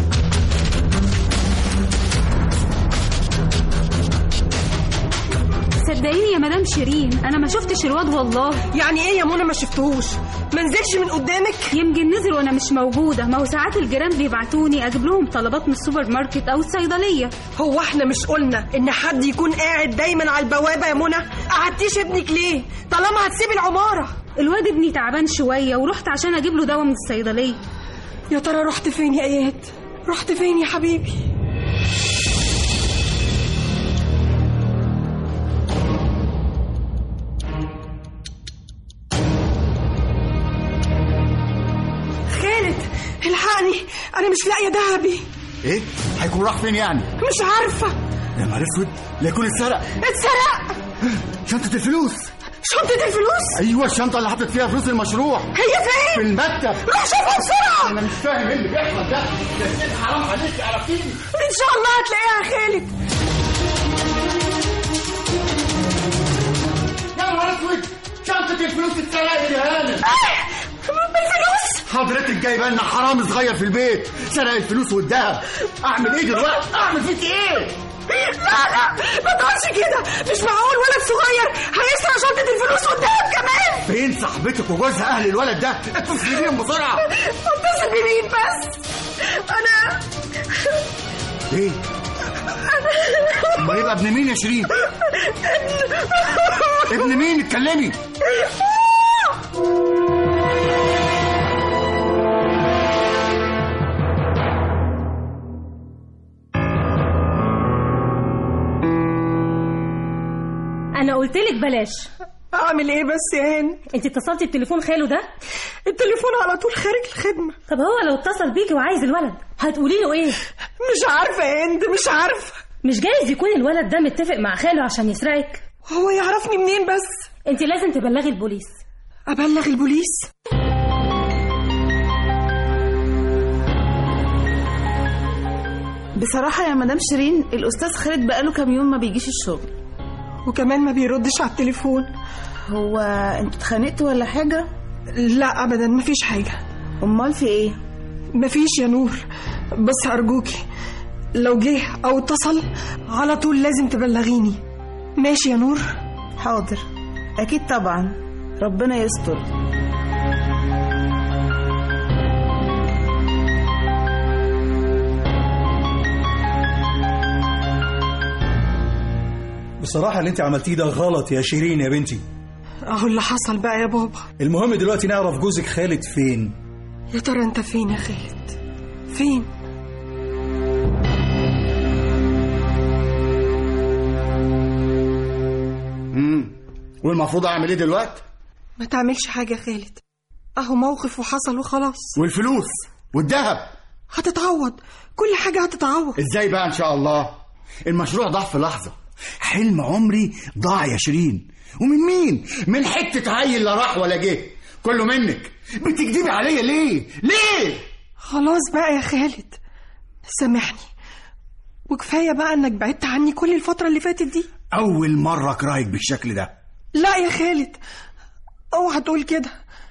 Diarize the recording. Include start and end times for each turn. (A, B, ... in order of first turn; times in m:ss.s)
0:05.8-0:08.4 A
0:08.7-0:11.7 B
0:11.8-0:17.3 A
0:17.5-0:24.2 B
0:24.4-0:27.5 A
0:28.3-0:31.2 B
0:42.3-0:45.2 B
0:45.6-0:47.1 C
0:47.2-0:48.0 B
0:48.4-0:50.0 C
0:49.9-0:50.8 B
0:51.1-0:52.3 C
0:52.6-0:53.6 B
0:53.6-0:55.5 C
0:55.5-0:56.3 B
0:56.1-0:56.8 C
0:56.8-0:58.0 B
0:57.8-1:01.2 C
1:01.3-1:02.9 B
1:07.1-1:10.0 C
1:10.1-1:11.8 B
1:11.9-1:17.8 C
1:18.1-1:23.9 B
1:23.9-1:27.0 C
1:27.1-1:30.0 B
1:31.5-1:31.8 C
1:32.8-1:33.6 B
1:33.6-1:34.7 C
1:35.3-1:37.0 B
1:36.9-1:38.0 C
1:51.0-1:52.1 D
1:52.5-1:53.8 B
1:53.9-1:55.3 D
1:55.9-1:57.6 B
1:57.7-2:00.4 D
2:00.8-2:02.6 B
2:02.8-2:05.6 D
2:05.9-2:07.2 B
2:07.5-2:08.8 D
2:09.3-2:10.3 B
2:16.2-2:19.7 E
2:20.5-2:22.1 B
2:22.7-2:24.7 E
2:25.1-2:26.6 B
2:27.0-2:27.8 E
2:28.4-2:29.2 B
2:29.8-2:30.6 B
2:31.4-2:34.6 B
2:35.2-2:35.9 B
2:36.4-2:36.8 E
2:37.4-2:39.5 E
2:49.8-2:52.2 F
2:52.9-2:54.3 B
2:54.4-2:56.6 F
2:57.1-2:58.6 B
2:59.1-2:59.5 B
3:06.1-3:08.2 C
3:08.8-3:10.0 B
3:10.6-3:12.2 B
3:12.2-3:13.7 C
3:14.1-3:16.2 B
3:16.2-3:27.8 C
3:28.2-3:29.6 B
3:30.3-3:30.9 B
3:31.9-3:34.5 B
3:34.7-3:36.5 C
3:37.0-3:37.8 B
3:38.7-3:39.5 B